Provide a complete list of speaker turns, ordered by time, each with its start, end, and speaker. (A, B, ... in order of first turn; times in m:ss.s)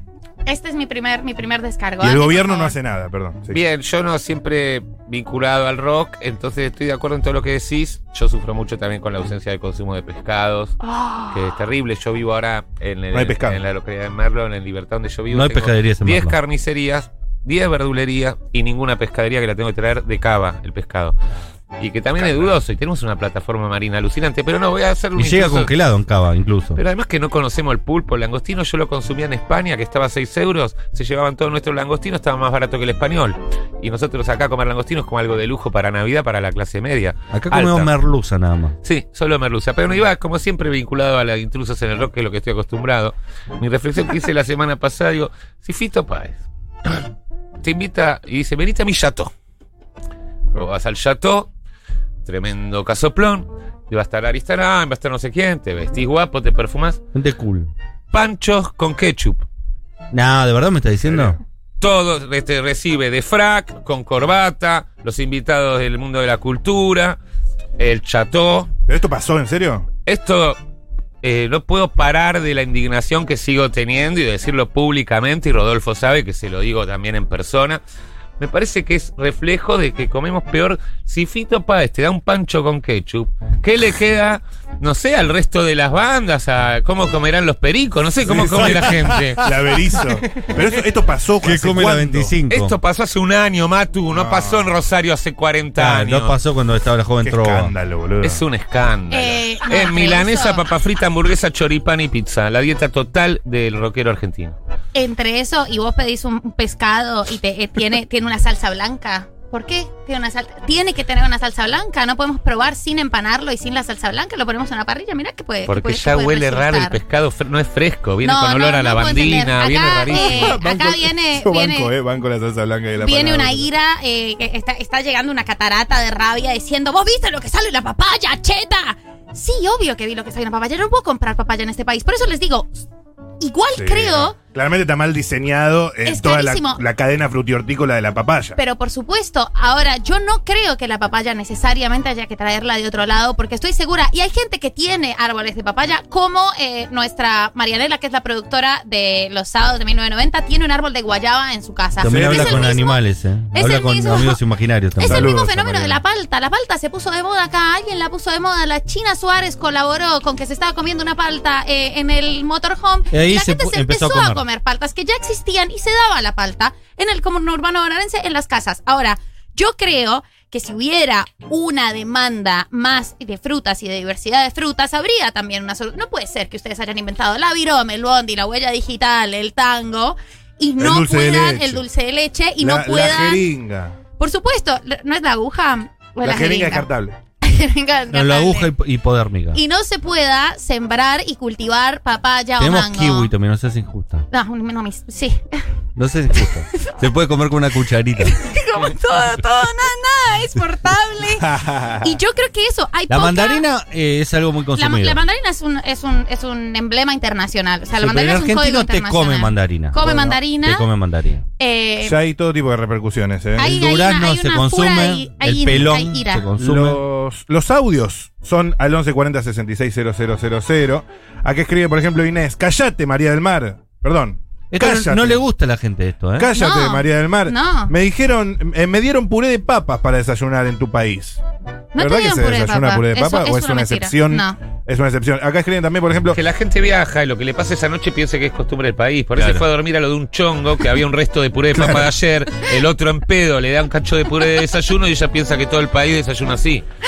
0:00.5-0:02.8 A
0:02.0-0:03.6 B
0:03.5-0:10.8 C
0:10.8-0:11.5 A
0:11.3-0:21.2 C
0:13.1-0:13.6 B
0:15.3-0:16.4 D
0:21.8-0:25.7 C
0:22.2-0:22.6 B
0:25.2-0:26.8 D
0:26.8-0:37.9 C
0:37.3-0:38.8 D
0:38.8-0:47.0 C
0:47.6-0:49.3 C
0:50.6-0:51.5 C
0:52.2-0:57.0 C
0:57.1-0:57.7 D
0:58.1-0:59.4 C
1:00.1-1:01.4 D
1:01.1-1:01.4 B
1:01.8-1:07.2 C
1:07.8-1:08.7 C
1:08.9-1:09.9 B
1:10.1-1:10.6 C
1:11.2-1:17.8 C
1:18.4-1:29.4 C
1:28.2-1:32.3 B
1:31.4-1:32.8 D
1:32.5-1:36.4 C
1:34.1-1:34.8 B
1:35.8-1:37.8 D
1:37.2-1:38.4 B
1:38.2-1:44.6 C
1:39.1-1:40.6 A
1:44.9-1:57.0 A
1:55.7-2:00.6 C
1:58.2-2:01.9 A
2:00.1-2:03.7 B
2:03.0-2:12.9 A
2:13.4-2:14.4 A
2:13.8-2:18.6 B
2:16.0-2:16.8 A
2:18.6-2:33.0 A
2:32.0-2:35.3 D
2:32.0-2:32.8 B
2:33.5-2:34.4 A
2:35.0-3:03.5 A
2:35.0-2:36.0 B
2:43.1-2:44.4 D
3:00.8-3:01.8 B
3:02.6-3:04.0 B
3:04.2-3:06.9 A
3:06.2-3:07.2 B
3:07.4-3:08.7 A
3:08.1-3:09.6 D
3:09.5-3:13.3 A
3:12.6-3:14.3 D
3:14.3-3:15.6 A
3:16.0-3:18.4 D
3:16.4-3:17.0 A
3:18.2-3:23.6 A
3:21.4-3:22.2 B
3:23.1-3:25.2 D
3:24.8-3:30.9 A
3:28.0-3:31.4 D
3:30.0-3:30.4 B
3:31.6-3:32.2 A
3:32.0-3:33.7 B
3:33.6-3:36.5 A
3:33.6-3:37.0 D
3:36.6-3:45.4 B
3:44.7-3:46.5 D
3:46.4-3:51.4 B
3:46.5-3:47.9 A
3:51.9-3:54.6 A
3:52.0-3:56.4 B
3:56.3-4:06.8 C
3:59.4-3:59.6 D
4:01.7-4:02.1 B